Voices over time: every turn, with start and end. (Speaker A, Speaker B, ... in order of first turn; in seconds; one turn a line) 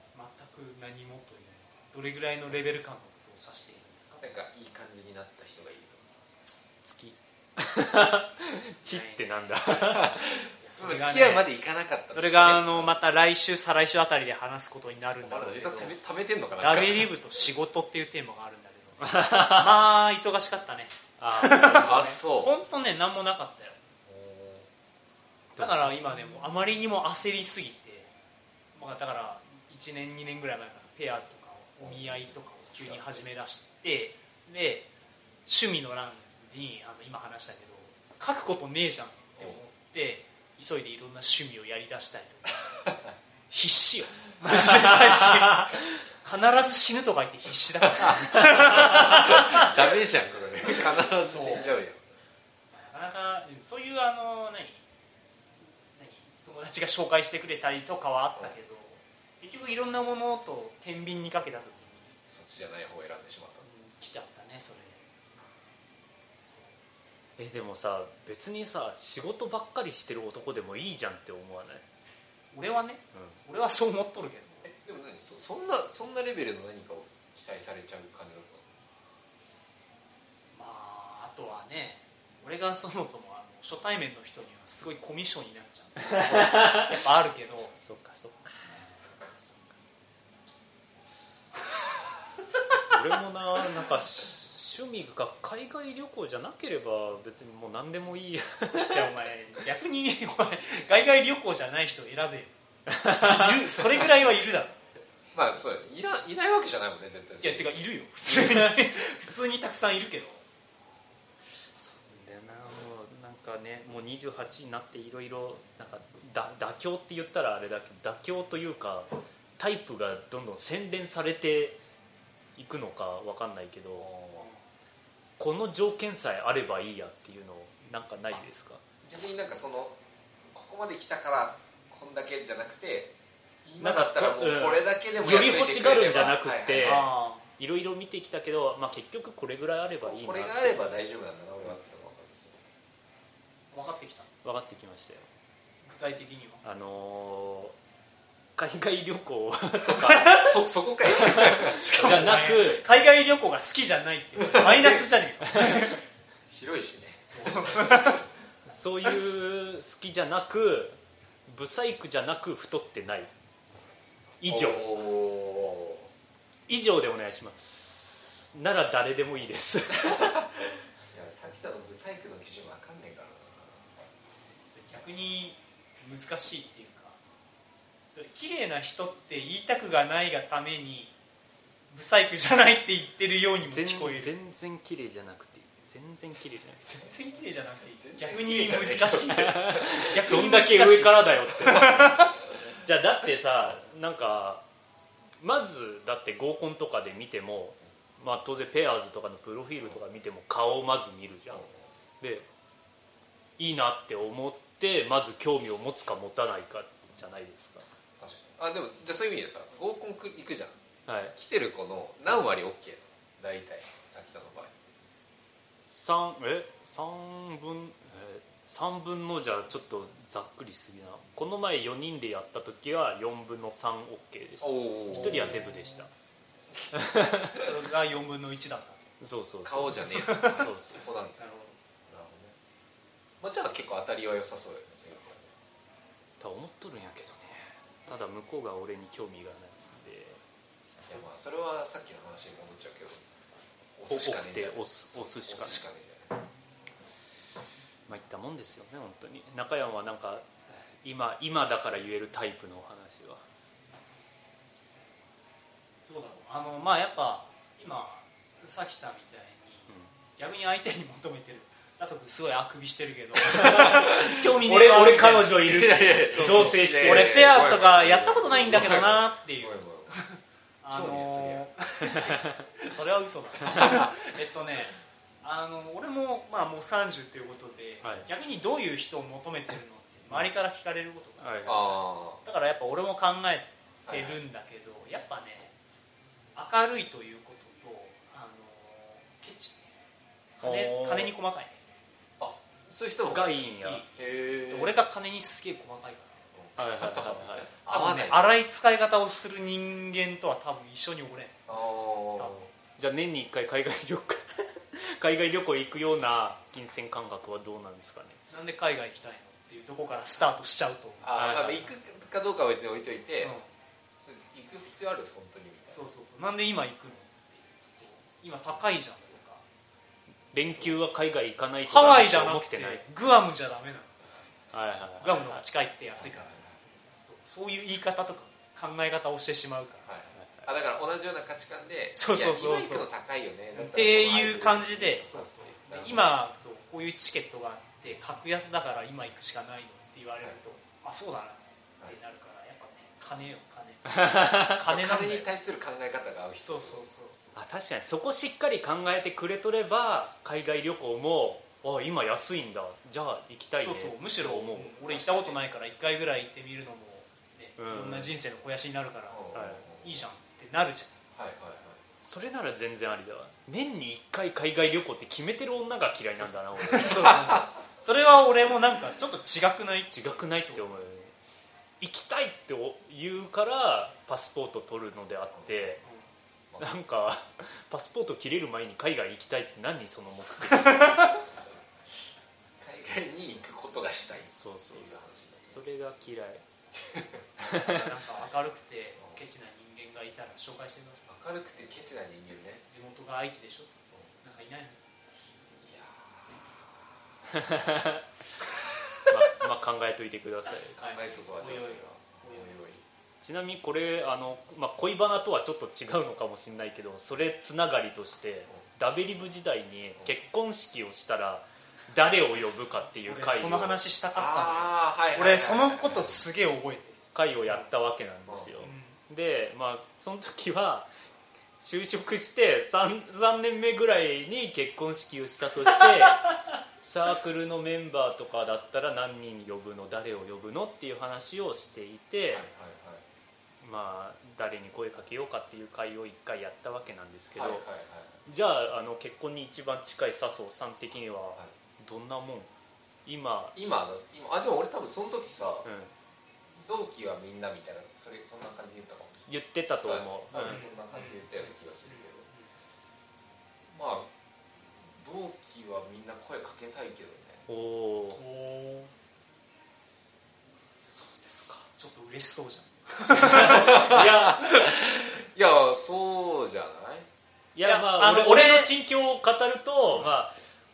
Speaker A: 0.1-4.3
Speaker B: 4.2-6.3
Speaker C: 6.8-10.2
Speaker A: 8.8-9.6
Speaker B: 9.7-12.9
Speaker A: 10.6-11.5
Speaker A: 12.1-15.9
Speaker B: 15.2-17.1
Speaker A: 16.6-23.8
Speaker C: 19.0-19.9
Speaker C: 21.2-22.2
Speaker B: 21.8-22.5
Speaker B: 24.1-24.7
Speaker C: 25.6-26.2
Speaker A: 25.6-28.1
Speaker A: 28.7-34.9
Speaker B: 31.8-33.0
Speaker A: 35.5-42.6
Speaker A: 43.5-49.7
Speaker C: 44.5-45.5
Speaker B: 48.7-52.0
Speaker A: 51.2-51.7
Speaker A: 52.7-54.8
Speaker A: 55.8-62.1
Speaker B: 62.3-63.6
Speaker A: 63.6-65.0
Speaker A: 66.5-66.8
Speaker C: 67.4-71.8
Speaker A: 72.5-74.7
Speaker B: 74.7-78.7
Speaker A: 80.5-87.7
Speaker C: 86.0-87.0
Speaker C: 87.8-88.8
Speaker A: 88.7-88.9
Speaker B: 89.0-89.3
Speaker C: 92.9-99.1
Speaker A: 98.7-104.9
Speaker C: 102.9-103.7
Speaker B: 105.3-107.8
Speaker A: 107.4-110.4
Speaker C: 111.8-121.8
Speaker C: 122.6-124.1
Speaker B: 124.0-124.5
Speaker A: 124.4-124.6
Speaker C: 125.4-128.8
Speaker B: 129.0-130.0
Speaker B: 130.5-133.1
Speaker B: 133.6-137.1
Speaker C: 133.8-141.0
Speaker A: 136.8-137.5
Speaker B: 140.0-142.7
Speaker A: 143.7-144.3
Speaker C: 144.4-145.3
Speaker A: 145.8-146.6
Speaker C: 146.6-147.8
Speaker C: 148.6-150.5
Speaker B: 150.0-152.2
Speaker C: 151.1-152.8
Speaker A: 151.6-156.0
Speaker B: 154.4-155.0
Speaker C: 155.5-155.9
Speaker B: 156.5-158.2
Speaker A: 157.3-158.2
Speaker C: 158.7-163.3
Speaker C: 164.4-164.9
Speaker B: 164.5-166.1
Speaker C: 166.7-170.4
Speaker B: 170.1-170.4
Speaker B: 171.1-173.8
Speaker A: 174.7-177.2
Speaker A: 178.1-181.1
Speaker A: 181.9-184.3
Speaker C: 183.7-186.8
Speaker A: 186.8-192.3
Speaker B: 188.0-189.8
Speaker C: 189.3-192.2
Speaker C: 192.8-194.6
Speaker C: 195.4-201.7
Speaker B: 201.5-201.8
Speaker C: 202.2-202.5
Speaker C: 203.6-207.9
Speaker B: 208.2-210.8
Speaker C: 211.1-211.4
Speaker B: 211.3-214.7
Speaker C: 215.9-226.1
Speaker B: 224.6-225.6
Speaker C: 226.9-227.7
Speaker A: 227.5-229.0
Speaker C: 229.2-231.1
Speaker B: 229.6-231.4
Speaker A: 230.1-230.7
Speaker A: 231.4-231.8
Speaker B: 232.1-232.6
Speaker B: 233.4-235.6
Speaker C: 236.4-240.4
Speaker B: 241.1-243.2
Speaker B: 243.9-246.4
Speaker C: 244.1-245.8
Speaker C: 248.1-253.4
Speaker A: 256.1-265.6
Speaker C: 263.5-267.6
Speaker B: 265.6-270.1
Speaker A: 266.2-285.7
Speaker B: 270.9-271.7
Speaker C: 281.4-281.9
Speaker B: 281.6-282.4
Speaker B: 284.1-284.4
Speaker A: 286.6-289.8
Speaker A: 290.6-291.8
Speaker C: 290.6-291.3
Speaker B: 292.4-293.6
Speaker C: 293.3-294.0
Speaker A: 293.8-296.5
Speaker B: 294.2-294.9
Speaker B: 296.5-298.4
Speaker C: 296.8-297.7
Speaker A: 297.9-301.7
Speaker B: 301.7-302.6
Speaker A: 302.4-302.7
Speaker C: 303.0-308.4
Speaker A: 308.5-311.4
Speaker B: 311.2-313.6
Speaker C: 311.3-311.9
Speaker A: 313.4-313.7
Speaker B: 314.2-316.1
Speaker A: 315.9-319.6
Speaker C: 320.5-323.0
Speaker A: 321.9-324.2
Speaker C: 324.7-325.6
Speaker A: 325.2-330.1
Speaker B: 326.2-326.8
Speaker B: 330.1-336.4
Speaker C: 330.4-330.7
Speaker A: 332.2-333.1
Speaker A: 333.7-345.5
Speaker C: 344.2-344.8
Speaker B: 344.8-347.1
Speaker A: 346.6-347.6
Speaker C: 347.6-355.0
Speaker A: 353.8-361.2
Speaker B: 355.1-355.6
Speaker C: 357.8-358.3
Speaker B: 359.3-360.2
Speaker C: 359.5-359.9
Speaker B: 361.3-362.0
Speaker C: 362.2-367.4
Speaker A: 366.8-370.8
Speaker C: 370.1-371.3
Speaker C: 372.0-376.0
Speaker C: 376.8-381.4
Speaker B: 382.8-385.8
Speaker C: 384.5-386.6
Speaker B: 386.9-387.4
Speaker C: 387.7-388.0
Speaker A: 387.8-391.3
Speaker B: 391.3-392.8
Speaker A: 392.9-395.0
Speaker B: 395.7-396.5
Speaker C: 397.5-398.2
Speaker C: 399.3-401.0
Speaker A: 401.0-402.8
Speaker B: 401.0-403.0
Speaker C: 403.4-414.0
Speaker A: 413.3-417.9
Speaker B: 414.3-416.4
Speaker C: 417.3-421.1
Speaker A: 418.8-419.2
Speaker C: 421.8-432.7
Speaker B: 432.5-433.2
Speaker C: 433.8-437.9
Speaker B: 437.6-438.4
Speaker C: 438.5-442.7
Speaker C: 443.3-443.8
Speaker B: 443.8-445.9
Speaker C: 445.9-446.1
Speaker B: 446.8-449.5
Speaker C: 449.5-450.8
Speaker B: 450.0-452.5
Speaker A: 450.6-452.7
Speaker B: 453.9-457.7
Speaker C: 457.7-458.4
Speaker A: 458.4-459.1
Speaker C: 461.0-461.9
Speaker A: 462.0-464.3
Speaker C: 463.3-464.7
Speaker B: 463.5-467.3
Speaker C: 467.8-470.5
Speaker A: 467.8-468.9